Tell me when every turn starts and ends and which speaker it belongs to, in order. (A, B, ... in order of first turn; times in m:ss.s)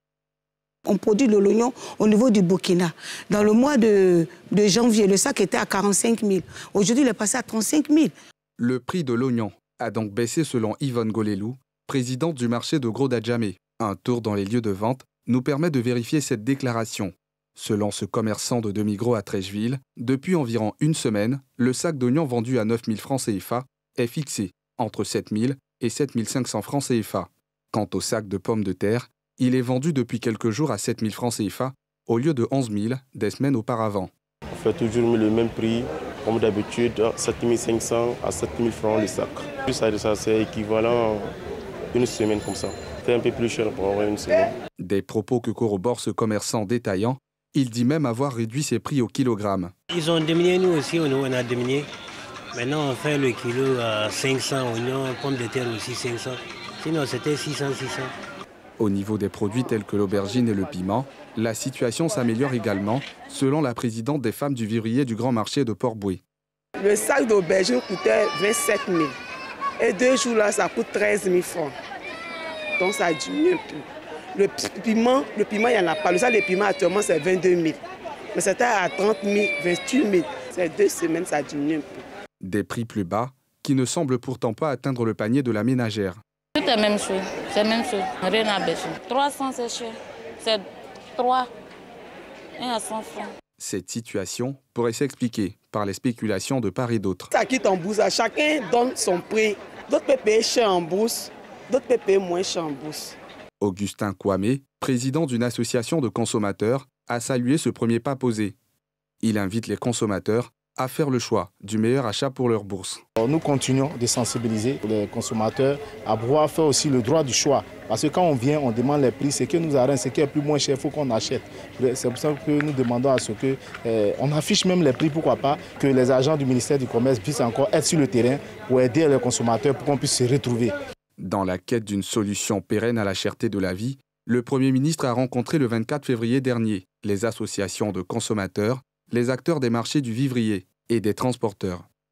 0:00.8-0:08.1 A
0:08.6-0:34.1 B
0:34.5-0:41.3 C
0:41.9-0:44.6 C
0:44.8-0:49.7 B
0:49.9-0:51.9 D
0:52.5-0:58.1 D
0:58.8-1:06.2 B
1:06.8-1:09.1 E
1:09.8-1:11.7 E
1:12.8-1:13.8 E
1:14.3-1:17.8 E
1:18.3-1:22.0 E
1:22.4-1:26.2 B
1:26.6-1:31.5 F
1:32.6-1:33.3 F
1:33.6-1:37.3 B
1:37.3-1:43.2 E
1:43.6-1:48.6 B
1:49.2-1:53.0 B
1:53.2-2:10.7 G
2:11.2-2:21.9 B